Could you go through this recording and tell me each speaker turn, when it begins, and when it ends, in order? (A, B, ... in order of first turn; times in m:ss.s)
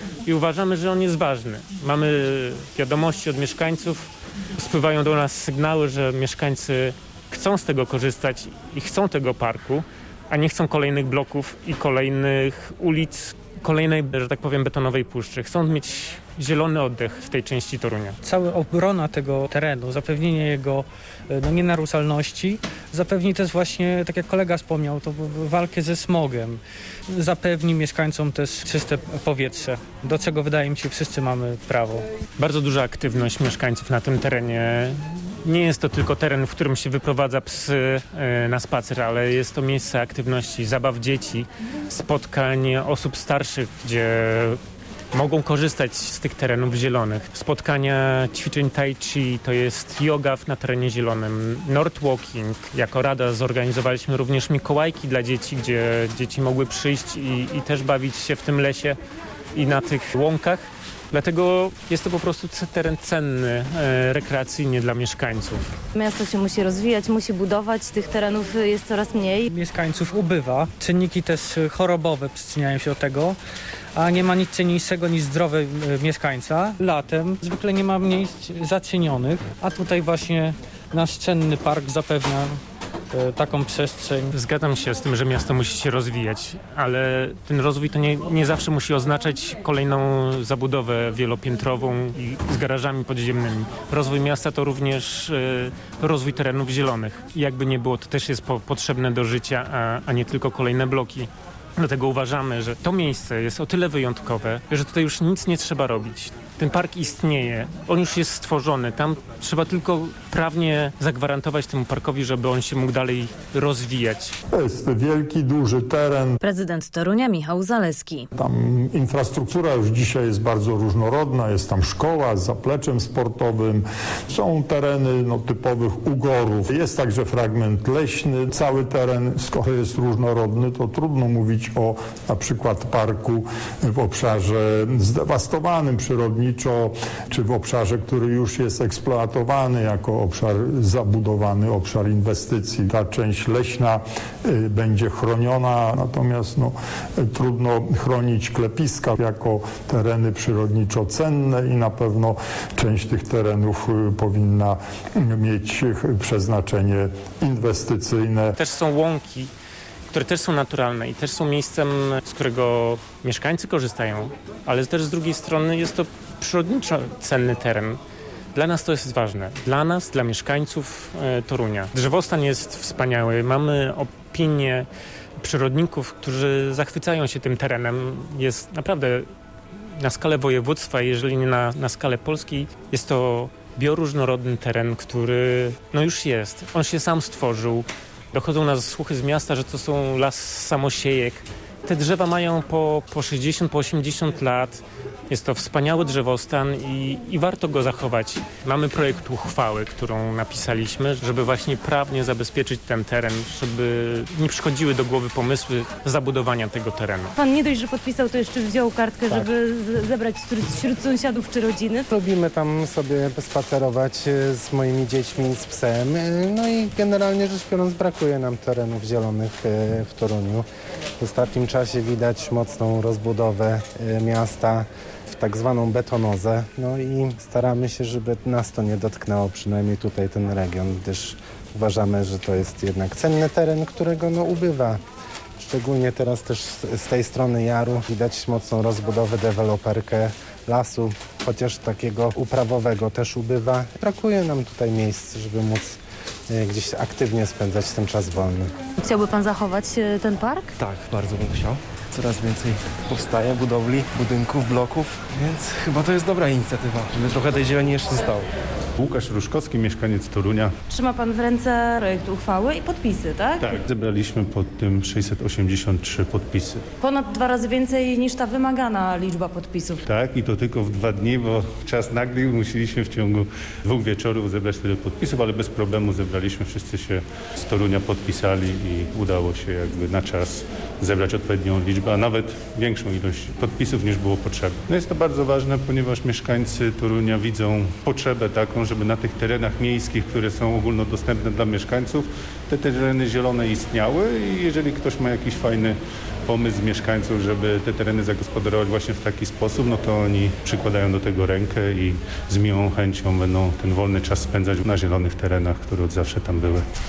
0:00.2-0:18.2 A
0:18.2-0:26.6 B
0:27.1-0:32.1 B
0:32.4-0:44.6 A
0:45.1-0:59.0 A
0:59.5-1:05.7 A
1:06.0-1:09.5 C
1:09.5-1:13.4 B
1:14.0-1:22.6 B
1:23.1-1:24.3 B
1:24.3-1:54.4 A
1:54.5-1:56.4 D
1:56.4-1:58.3 C
1:58.4-2:38.5 D
2:38.6-2:39.5 A
2:40.1-2:48.0 A
2:48.5-2:54.9 A
2:55.4-2:59.3 A
3:00.0-3:27.3 A
3:27.4-3:32.1 C
3:32.1-3:40.7 E
3:41.2-3:55.0 E
3:55.6-4:08.7 E
4:09.0-4:10.7 C
4:10.8-4:18.5 F
4:19.0-4:20.7 G
4:20.9-4:23.8 C
4:23.6-4:26.8 G
4:27.0-4:30.0 C
4:30.1-5:06.9 G